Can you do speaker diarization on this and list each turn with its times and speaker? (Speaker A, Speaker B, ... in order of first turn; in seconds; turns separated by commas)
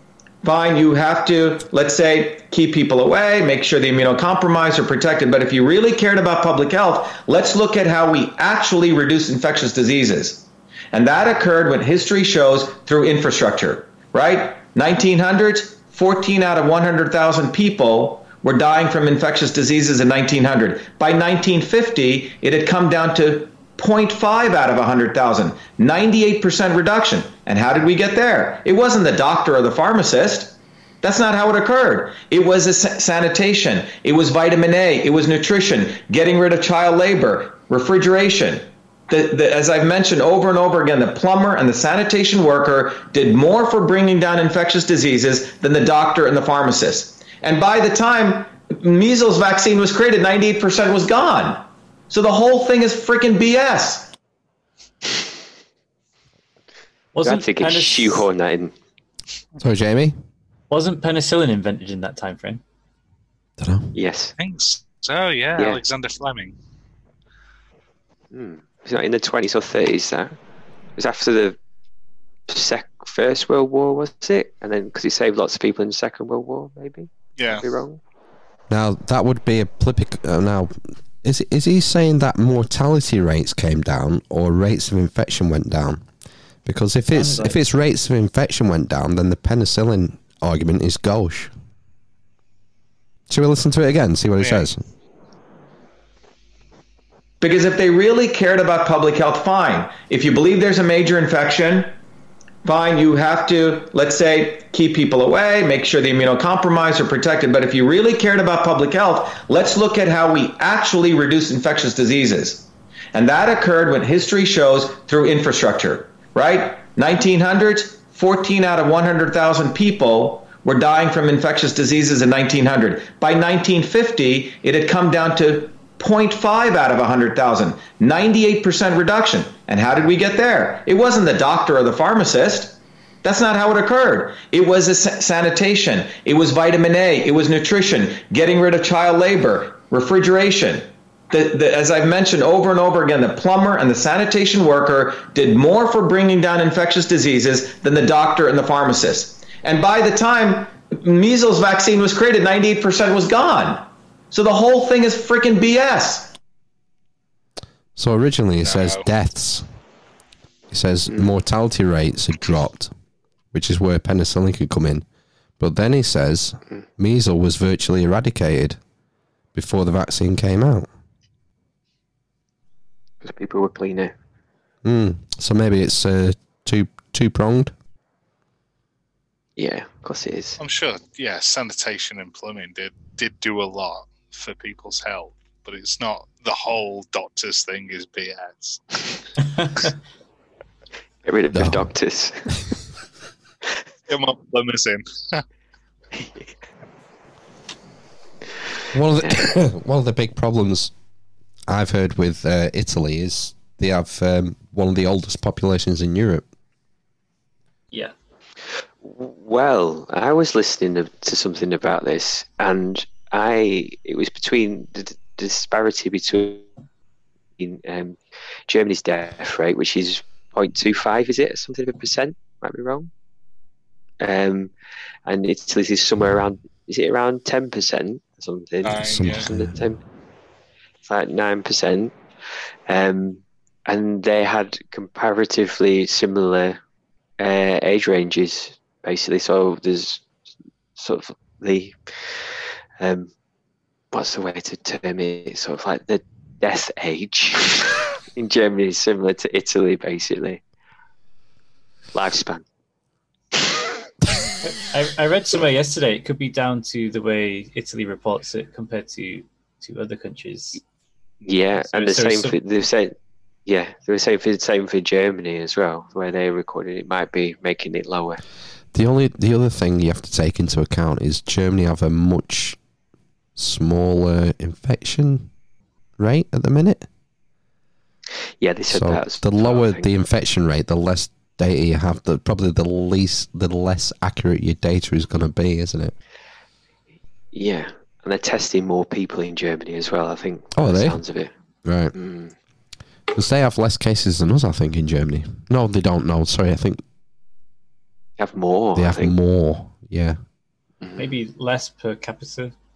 Speaker A: 0.4-54.1, Speaker B: 57.1-58.2, Speaker C: 57.2-58.7, Speaker D: 59.6-60.2, Speaker B: 60.7-62.6, Speaker D: 63.6-63.9, Speaker C: 63.9-64.3, Speaker E: 64.4-66.5, Speaker C: 68.3-70.4, Speaker C: 71.0-71.6, Speaker C: 72.5-78.0, Speaker E: 77.4-77.7, Speaker D: 78.7-86.0, Speaker D: 86.6-91.5, Speaker D: 93.3-94.8, Speaker E: 94.4-94.7, Speaker A: 97.4-101.9, Speaker A: 102.6-156.3, Speaker D: 157.9-159.7, Speaker E: 158.6-159.0, Speaker D: 160.7-162.9, Speaker D: 163.5-165.0, Speaker D: 165.6-168.8, Speaker D: 169.5-170.9, Speaker C: 173.2-174.1, Speaker D: 174.8-177.7, Speaker C: 179.6-180.6, Speaker E: 180.6-188.8, Speaker C: 191.2-192.6, Speaker D: 191.5-191.9, Speaker E: 194.1-195.4, Speaker C: 196.1-196.5, Speaker D: 198.9-200.9, Speaker C: 199.2-199.5, Speaker D: 201.7-206.4, Speaker C: 209.0-216.7, Speaker C: 217.6-223.1, Speaker C: 224.2-224.7, Speaker C: 225.2-230.0, Speaker E: 228.8-229.5, Speaker D: 229.0-229.8, Speaker C: 231.0-232.1, Speaker C: 232.9-236.8, Speaker C: 237.4-240.2, Speaker C: 240.9-242.4, Speaker C: 243.0-243.3, Speaker C: 244.1-250.6, Speaker C: 252.1-252.6, Speaker B: 254.6-260.8, Speaker C: 261.4-263.1, Speaker B: 261.7-262.6, Speaker C: 263.6-268.4, Speaker D: 268.9-272.8, Speaker D: 273.6-275.5, Speaker D: 276.2-277.1, Speaker C: 278.6-280.1, Speaker D: 278.9-286.1, Speaker C: 287.5-291.5, Speaker D: 290.7-291.2, Speaker D: 291.8-292.1, Speaker C: 292.1-292.5, Speaker D: 293.3-297.0, Speaker C: 298.4-299.3, Speaker D: 298.9-300.4, Speaker C: 301.0-301.3, Speaker B: 301.2-302.7